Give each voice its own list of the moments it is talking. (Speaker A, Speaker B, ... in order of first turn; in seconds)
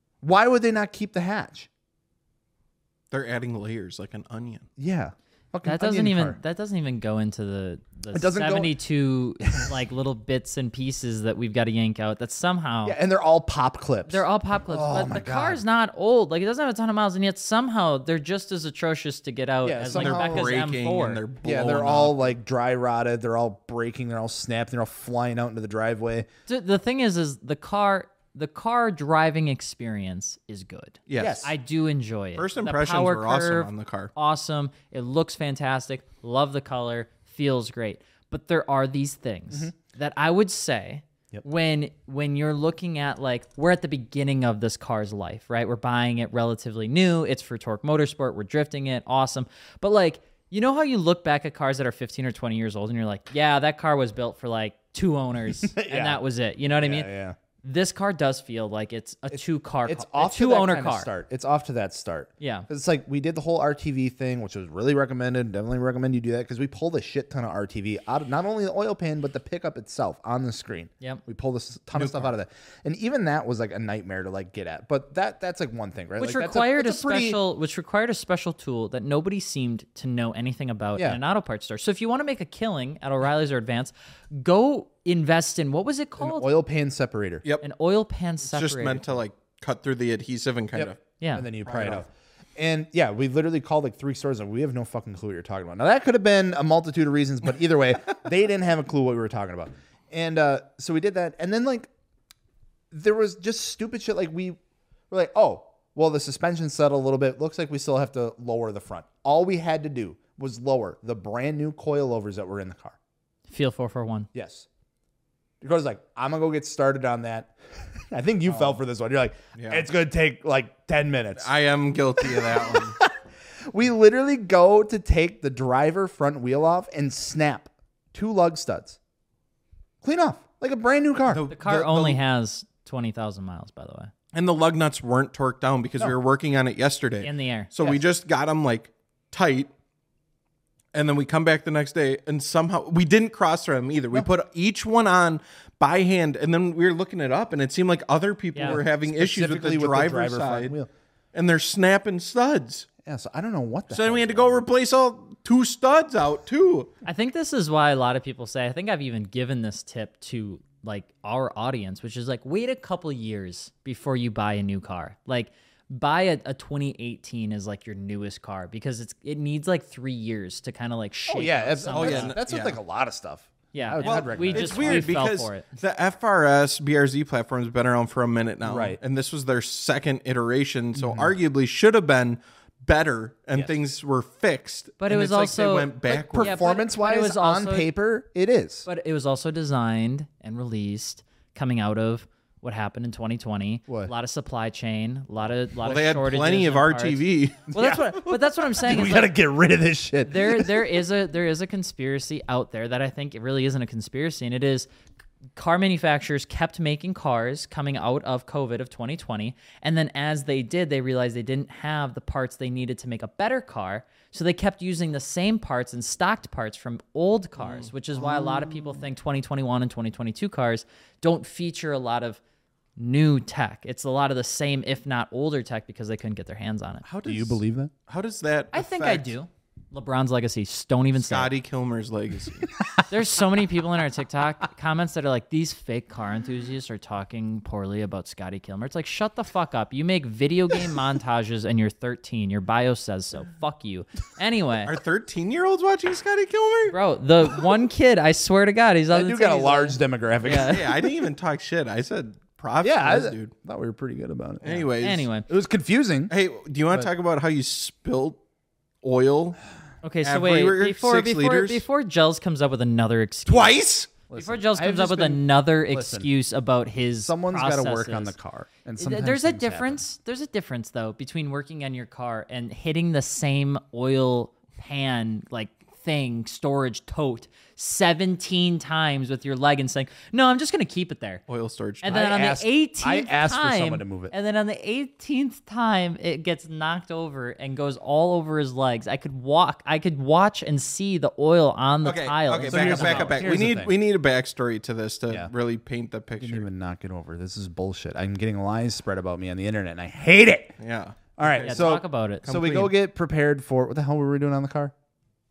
Speaker A: 0.2-1.7, 4.8-6.4, 8.1-8.7, 12.8-15.6, 19.6-20.6, 21.4-26.3, 31.2-31.5, 55.6-56.2, 56.8-57.4, 59.3-77.4, 86.2-87.5, 90.8-101.9, 102.9-104.6, 105.1-113.0, 114.3-114.7, 115.6-121.5, 122.2-123.2, 123.7-129.0, 130.0-131.5, 148.6-150.9, 153.0-154.7, 171.3-175.1, 178.6-179.0, 180.9-181.3, 186.1-188.9, 197.7-200.9, 218.2-218.9, 227.2-227.9, 249.1-250.8, 252.8-254.9, 255.5-256.3, 264.3-266.3, 267.2-270.0, 282.1-284.3, 292.7-293.9, 296.4-300.8, 301.4-304.9
Speaker B: 3.1-4.7, 19.9-22.3, 31.1-31.5, 32.4-34.1, 72.0-72.3, 88.4-91.0, 91.6-92.0, 118.5-118.8, 119.6-119.8, 121.4-123.0, 131.3-132.2, 134.3-139.7, 140.9-150.7, 151.3-152.9, 153.9-156.9, 171.9-172.8, 174.0-186.6, 195.8-197.7, 217.6-217.9, 227.1-229.4, 231.2-232.8, 244.9-247.0, 250.7-253.5, 254.6-255.3, 256.3-258.4, 259.0-259.6, 260.2-261.8, 263.5-264.1, 281.5-282.2, 292.0-296.7, 300.8-301.9, 302.4-302.9
Speaker C: 5.7-13.0, 14.1-21.2, 26.5-57.1, 57.6-61.1, 62.4-62.7, 76.2-86.5, 87.6-89.1, 91.2-91.5, 113.5-114.3, 131.5-134.1, 137.2-137.9, 148.6-148.8, 157.1-172.3, 173.7-175.7, 185.0-187.9, 188.9-199.3, 200.3-204.9, 205.6-222.4, 223.0-227.1, 228.7-231.5, 233.1-245.0, 246.9-251.0, 255.0-255.5, 260.0-263.8, 264.3-268.4, 269.0-281.4, 282.0-293.4, 301.6-302.4